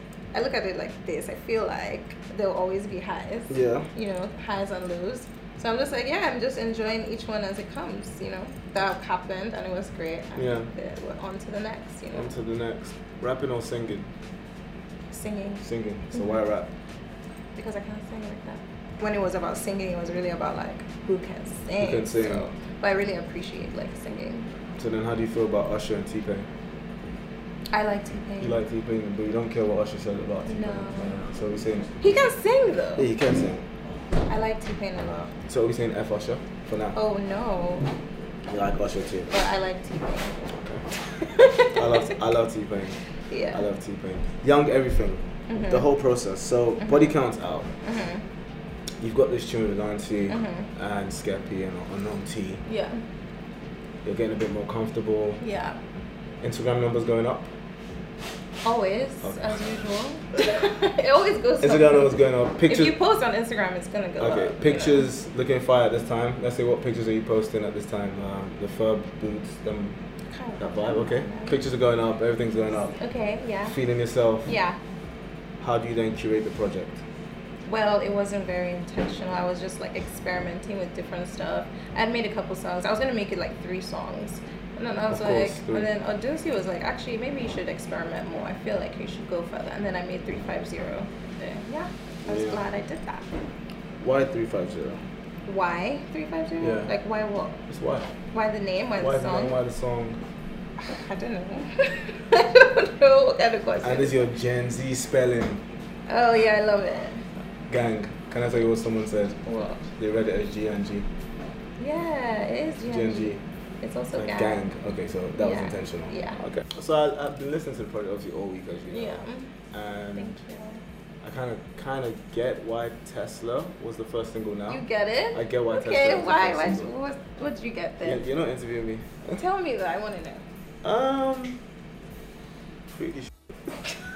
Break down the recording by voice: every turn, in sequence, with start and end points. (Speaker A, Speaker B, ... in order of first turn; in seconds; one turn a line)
Speaker A: 0.3-12.3
Speaker B: 3.5-3.9
Speaker B: 10.3-10.7
Speaker B: 12.1-14.1
Speaker A: 15.1-16.3
Speaker B: 15.6-16.7
Speaker A: 17.6-24.5
Speaker B: 21.8-22.5
Speaker B: 24.8-26.5
Speaker A: 27.7-28.6
Speaker B: 28.4-32.0
Speaker A: 30.5-31.2
Speaker A: 32.0-33.1
Speaker B: 33.0-33.6
Speaker A: 34.3-35.4
Speaker B: 35.5-37.0
Speaker A: 36.9-38.0
Speaker B: 38.5-39.4
Speaker A: 39.3-42.2
Speaker B: 41.7-47.7
Speaker A: 43.3-43.7
Speaker A: 45.5-45.9
Speaker A: 46.8-47.1
Speaker A: 47.8-48.2
Speaker B: 49.0-52.6
Speaker A: 50.3-50.7
Speaker A: 52.7-53.0
Speaker B: 54.0-55.4
Speaker A: 55.4-55.8
Speaker B: 56.4-57.5
Speaker A: 58.6-65.1
Speaker B: 59.2-59.7
Speaker B: 61.6-63.0
Speaker B: 64.2-70.0
Speaker A: 70.3-71.6
Speaker B: 70.6-73.0
Speaker A: 72.9-73.8
Speaker B: 73.6-74.6
Speaker A: 74.5-74.8
Speaker B: 75.6-77.0
Speaker A: 77.7-93.3
Speaker B: 85.1-85.9
Speaker B: 92.3-92.6
Speaker B: 94.0-95.0
Speaker A: 95.5-97.6
Speaker B: 96.6-96.9
Speaker B: 97.7-98.1
Speaker A: 98.3-99.6
Speaker B: 99.0-100.2
Speaker A: 100.8-104.2
Speaker B: 103.8-105.7
Speaker A: 106.1-107.3
Speaker B: 107.7-111.1
Speaker A: 109.4-109.9
Speaker A: 111.8-114.7
Speaker B: 112.8-113.4
Speaker B: 114.1-120.4
Speaker A: 115.4-116.4
Speaker A: 118.9-119.5
Speaker A: 120.2-120.8
Speaker B: 121.2-126.9
Speaker A: 124.7-128.2
Speaker B: 128.0-129.4
Speaker A: 129.3-130.4
Speaker B: 130.8-131.6
Speaker B: 132.9-133.3